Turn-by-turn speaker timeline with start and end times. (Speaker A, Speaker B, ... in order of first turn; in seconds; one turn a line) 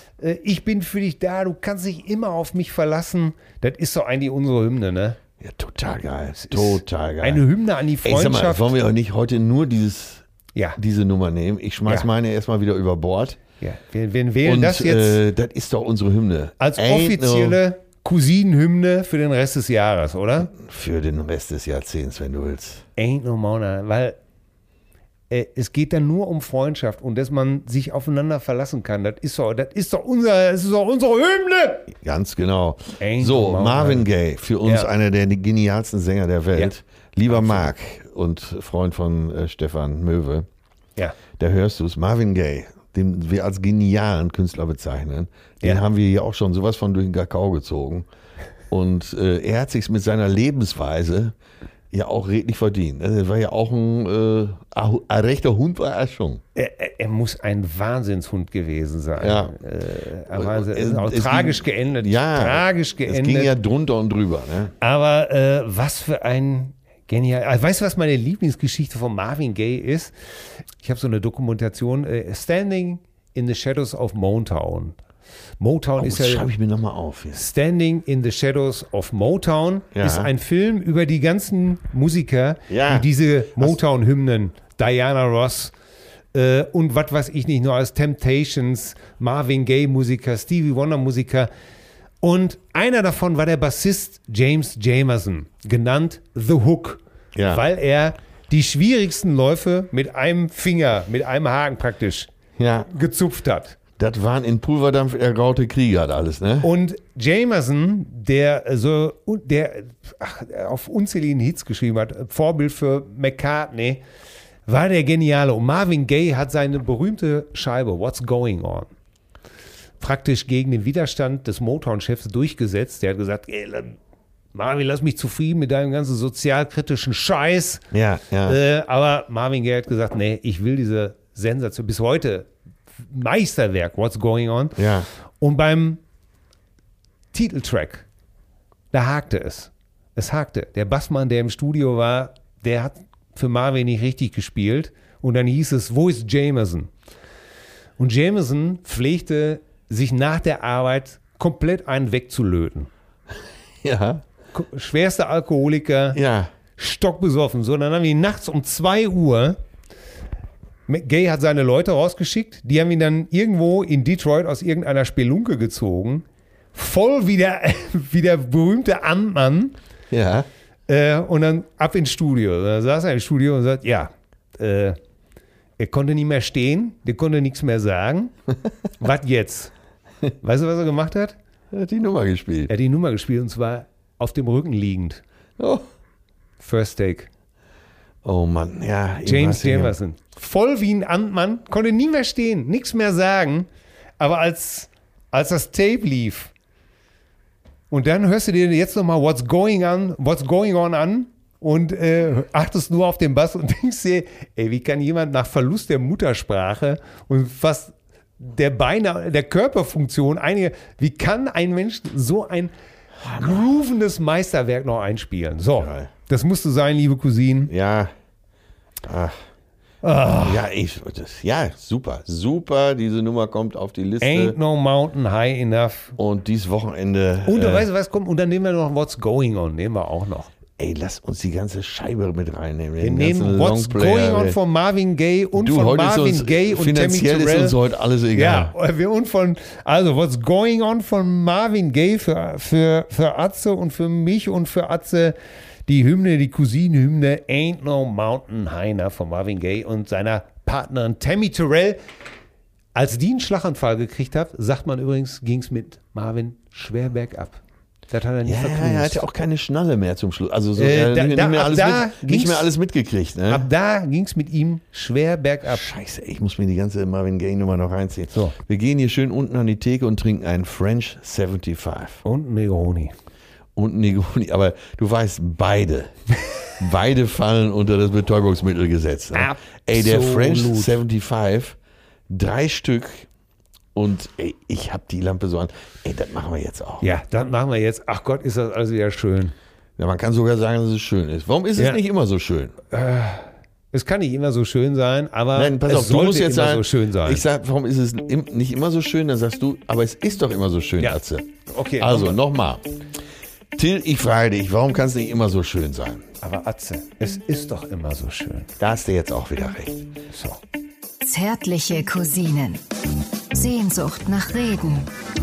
Speaker A: 0.2-5.2
Speaker B: 5.4-7.5
Speaker A: 6.4-8.7
Speaker B: 8.0-10.2
Speaker B: 10.8-13.4
Speaker A: 13.6-15.2
Speaker B: 14.4-17.6
Speaker A: 16.6-20.5
Speaker B: 20.5-22.9
Speaker A: 23.0-24.2
Speaker A: 25.3-31.9
Speaker B: 31.9-40.5
Speaker A: 33.0-34.1
Speaker A: 34.6-34.9
Speaker A: 37.3-37.7
Speaker B: 41.4-48.1
Speaker B: 48.7-51.4
Speaker B: 51.9-56.4
Speaker A: 56.5-63.5
Speaker B: 59.2-59.6
Speaker B: 60.3-64.7
Speaker A: 64.8-70.1
Speaker A: 70.8-75.0
Speaker A: 75.6-76.5
Speaker B: 76.0-77.4
Speaker A: 77.3-85.7
Speaker B: 79.9-80.3
Speaker B: 82.7-83.1
Speaker A: 86.3-91.5
Speaker A: 92.2-102.3
Speaker B: 97.3-97.6
Speaker B: 102.6-102.9
Speaker A: 102.9-103.8
Speaker B: 104.0-106.7
Speaker A: 106.6-114.0
Speaker A: 114.7-118.9
Speaker A: 120.0-124.0
Speaker A: 124.5-127.8
Speaker B: 127.9-128.6
Speaker A: 128.4-132.5
Speaker A: 133.0-134.8
Speaker B: 134.8-135.1
Speaker A: 135.4-136.0
Speaker A: 137.3-138.1
Speaker A: 138.9-146.9
Speaker A: 148.0-152.9
Speaker B: 153.8-154.2
Speaker A: 154.5-156.2
Speaker B: 156.1-156.5
Speaker A: 156.8-159.6
Speaker A: 160.9-169.8
Speaker B: 170.1-170.5
Speaker A: 170.9-175.0
Speaker A: 175.8-178.3
Speaker A: 179.0-179.7
Speaker A: 180.4-181.4
Speaker B: 181.7-182.7
Speaker A: 182.7-185.2
Speaker B: 185.6-185.8
Speaker A: 186.6-187.3
Speaker B: 188.2-190.0
Speaker A: 189.3-193.7
Speaker A: 194.2-196.5
Speaker A: 197.9-212.7
Speaker A: 213.2-217.7
Speaker B: 215.8-216.1
Speaker B: 217.7-218.1
Speaker B: 219.0-219.4
Speaker A: 220.0-220.6
Speaker B: 220.4-224.6
Speaker A: 224.2-226.2
Speaker B: 226.2-227.9
Speaker A: 227.5-230.5
Speaker B: 230.8-234.6
Speaker A: 233.0-237.8
Speaker B: 235.6-238.7
Speaker A: 238.3-245.3
Speaker A: 245.9-252.0
Speaker A: 252.9-259.2
Speaker B: 258.4-263.7
Speaker A: 260.8-262.7
Speaker A: 263.5-265.9
Speaker B: 265.6-272.2
Speaker A: 272.2-273.1
Speaker B: 273.8-276.2
Speaker B: 276.8-281.8
Speaker A: 279.3-281.0
Speaker B: 282.3-283.3
Speaker B: 283.9-287.1
Speaker A: 287.0-289.6
Speaker B: 290.0-292.8
Speaker A: 292.9-297.4
Speaker B: 295.5-302.9
Speaker A: 301.0-302.4
Speaker B: 303.8-306.3
Speaker A: 306.4-308.7
Speaker B: 308.8-310.1
Speaker A: 310.3-310.6
Speaker C: 311.2-312.8
Speaker C: 313.5-315.1